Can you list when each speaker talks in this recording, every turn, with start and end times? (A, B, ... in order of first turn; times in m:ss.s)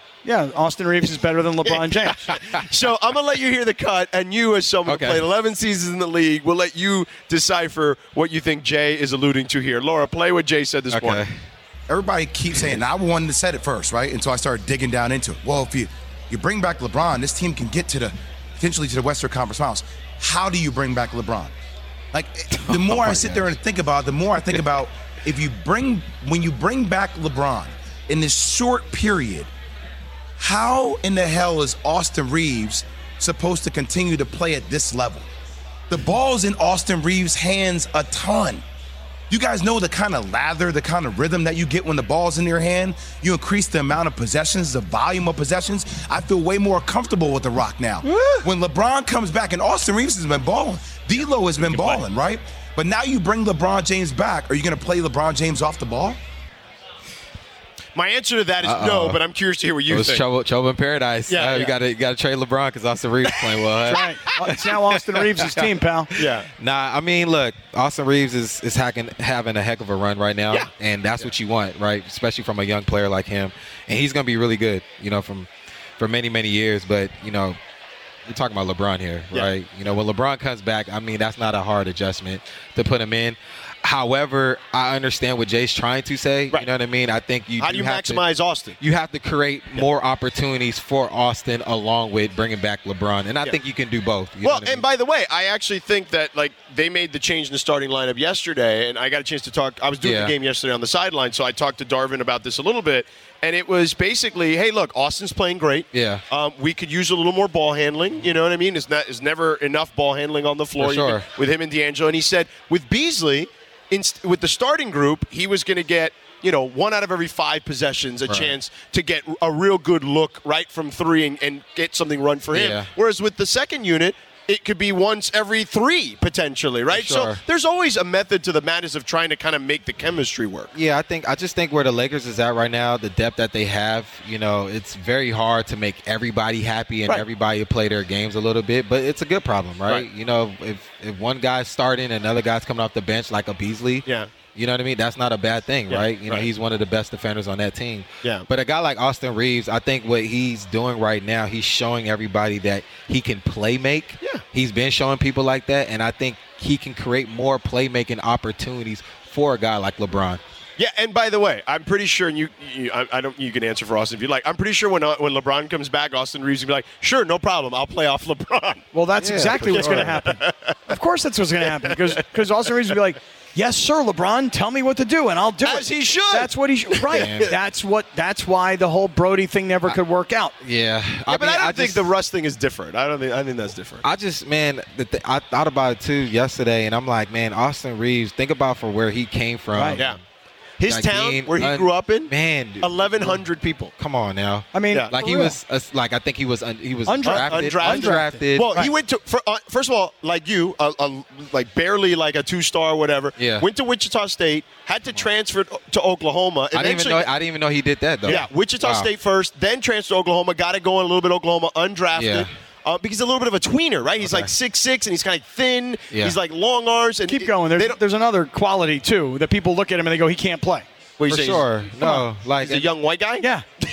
0:00.2-0:02.3 A
0:01.7-0:11.2 B
0:04.9-0:05.2 C
0:10.9-0:11.3 C
0:11.9-0:21.5 D
0:22.1-0:29.5 D
0:22.6-0:23.5 C
0:30.4-0:35.3 D
0:35.9-0:38.6 D
0:39.3-0:56.2 D
0:58.0-1:00.2 B
0:58.6-0:59.2 C
0:59.9-1:05.7 C
1:01.3-1:01.8 B
1:03.4-1:04.0 B
1:03.9-1:06.1 A
1:06.2-1:06.5 B
1:06.2-1:17.6 C
1:10.5-1:11.3 B
1:18.3-1:28.2 C
1:27.6-1:28.8 B
1:28.8-1:34.8 C
1:34.4-2:10.7 B
1:40.0-1:40.3 C
1:45.9-1:46.2 C
1:50.8-1:51.3 C
1:58.3-1:58.6 C
2:02.5-2:02.9 C
2:06.9-2:07.4 C
2:10.7-2:40.4 C
2:25.9-2:26.5 B
2:40.8-2:48.8 B
2:48.9-3:00.5 A
2:49.2-2:50.2 C
2:49.6-2:50.9 B
2:51.7-2:52.2 B
2:55.6-2:57.5 B
2:57.1-2:57.5 C
3:00.6-3:02.1 C
3:01.3-3:04.0 B
3:04.0-3:10.2 C
3:09.7-3:10.0 A
3:10.8-3:13.9 B
3:10.9-3:13.4 C
3:14.0-3:18.8 C
3:14.7-3:15.6 A
3:17.1-3:18.9 A
3:17.2-3:27.3 B
3:23.4-3:23.7 C
3:26.7-3:29.1 C
3:28.2-3:38.0 B
3:32.2-3:32.5 C
3:34.2-3:34.5 C
3:37.3-3:40.9 A
3:41.2-3:41.7 B
3:41.3-3:42.9 C
3:42.0-3:42.3 A
3:42.6-3:43.5 B